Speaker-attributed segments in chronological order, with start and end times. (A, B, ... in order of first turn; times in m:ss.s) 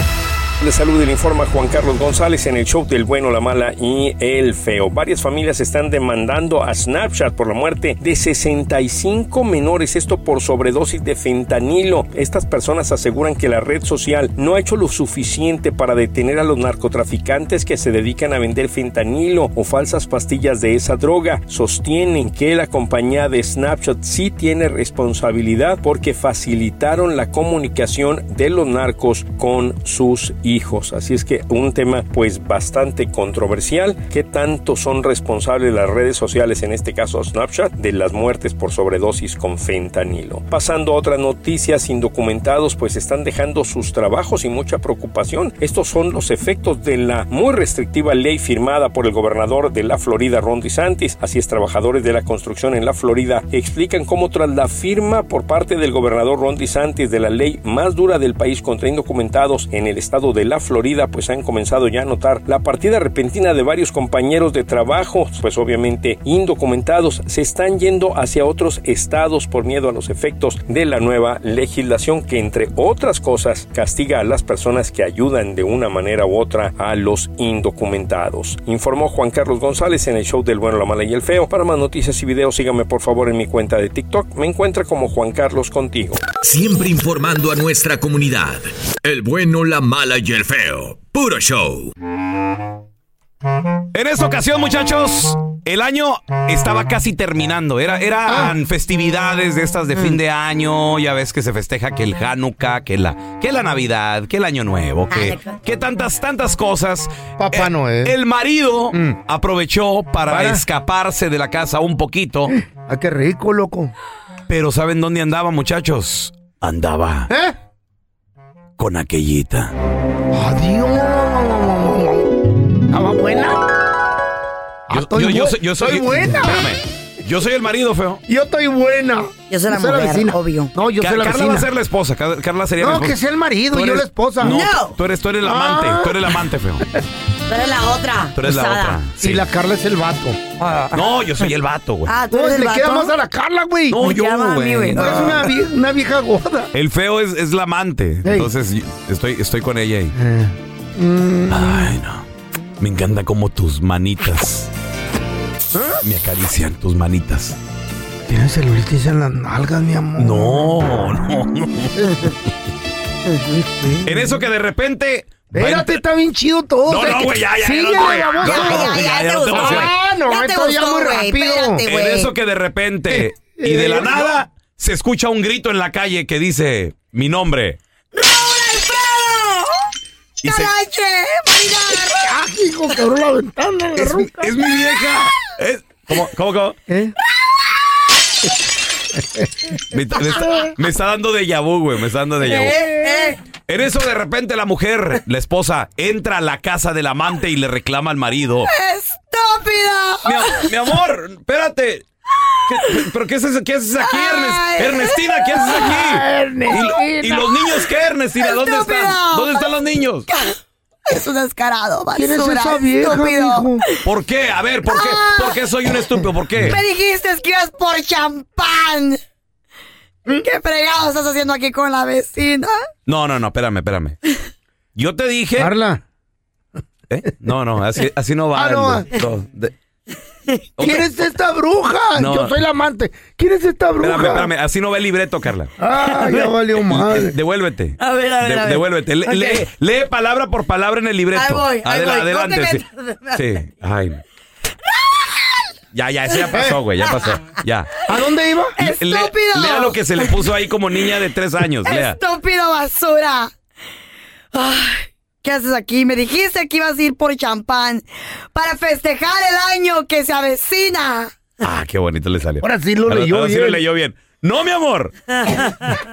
0:00.6-1:26.3 A
1:26.4-1:31.9 B
1:33.9-1:52.5 C
1:45.1-1:45.6 D
1:47.4-1:48.1 E
1:50.3-1:50.6 E
1:52.5-1:53.9 E
1:54.5-1:57.3 C
1:57.3-1:57.6 E
1:58.8-1:59.7 C
2:00.3-2:02.3 E
2:02.9-2:03.6 E
2:04.9-2:06.7 E
2:04.9-2:08.2 C
2:08.3-2:11.7 E
2:09.5-2:10.7 D
2:11.0-2:13.2 C
2:12.8-2:14.6 E
2:13.7-2:16.8 C
2:14.4-2:15.0 D
2:15.4-2:16.1 E
2:17.5-2:19.0 D
2:18.4-2:19.4 C
2:19.2-2:20.9 E
2:20.9-2:22.1 C
2:22.1-2:23.2 D
2:22.3-2:24.1 E
2:23.9-2:25.5 C
2:24.0-2:25.3 D
2:25.0-2:26.7 E
2:26.7-2:30.2 C
2:30.2-2:31.9 E
2:31.5-2:32.2 C
2:32.8-2:34.7 C
2:36.0-2:37.6 C
2:38.3-2:40.7 E
2:40.2-2:42.0 C
2:43.6-2:44.4 E
2:44.1-2:46.0 C
2:45.5-2:51.8 E
2:46.9-2:49.9 C
2:48.4-2:52.3 D
2:51.8-2:57.8 C
2:53.1-2:54.4 E
2:58.2-2:59.7 D
3:00.4-3:00.7 C
3:00.4-3:02.3 D
3:02.2-3:04.5 E
3:04.0-3:06.8 C
3:06.9-3:07.1 E
3:09.9-3:12.8 C
3:10.3-3:10.7 D
3:12.6-3:13.4 D
3:12.8-3:13.2 E
3:13.7-3:18.7 C
3:18.7-3:20.7 D
3:20.2-3:22.1 C
3:22.7-3:30.3 C
3:24.0-3:26.0 D
3:26.0-3:27.4 E
3:26.8-3:27.1 D
3:28.4-3:29.7 D
3:30.3-3:30.6 D
3:31.1-3:34.0 D
3:32.2-3:33.8 E
3:34.0-3:36.8 C
3:34.8-3:35.6 D
3:36.6-3:39.2 D
3:40.3-3:42.7 D
3:43.1-3:44.2 C
3:45.0-3:45.7 C
3:45.6-3:46.0 E
3:47.1-3:49.7 C
3:48.5-3:49.1 E
3:50.8-3:51.0 C
3:50.8-3:54.5 E
3:52.2-3:52.6 C
3:54.0-3:55.7 C
3:55.8-3:57.3 E
3:56.9-4:02.8 C
3:58.0-3:58.8 D
3:59.3-3:59.6 E
4:01.3-4:03.6 D
4:03.3-4:04.2 C
4:05.1-4:05.5 D
4:05.9-4:07.9 C
4:07.0-4:07.4 D
4:08.1-4:08.8 E
4:08.8-4:10.3 D
4:08.8-4:12.2 C
4:11.8-4:13.5 D
4:14.5-4:21.3 D
4:21.6-4:25.1 C
4:22.6-4:23.8 E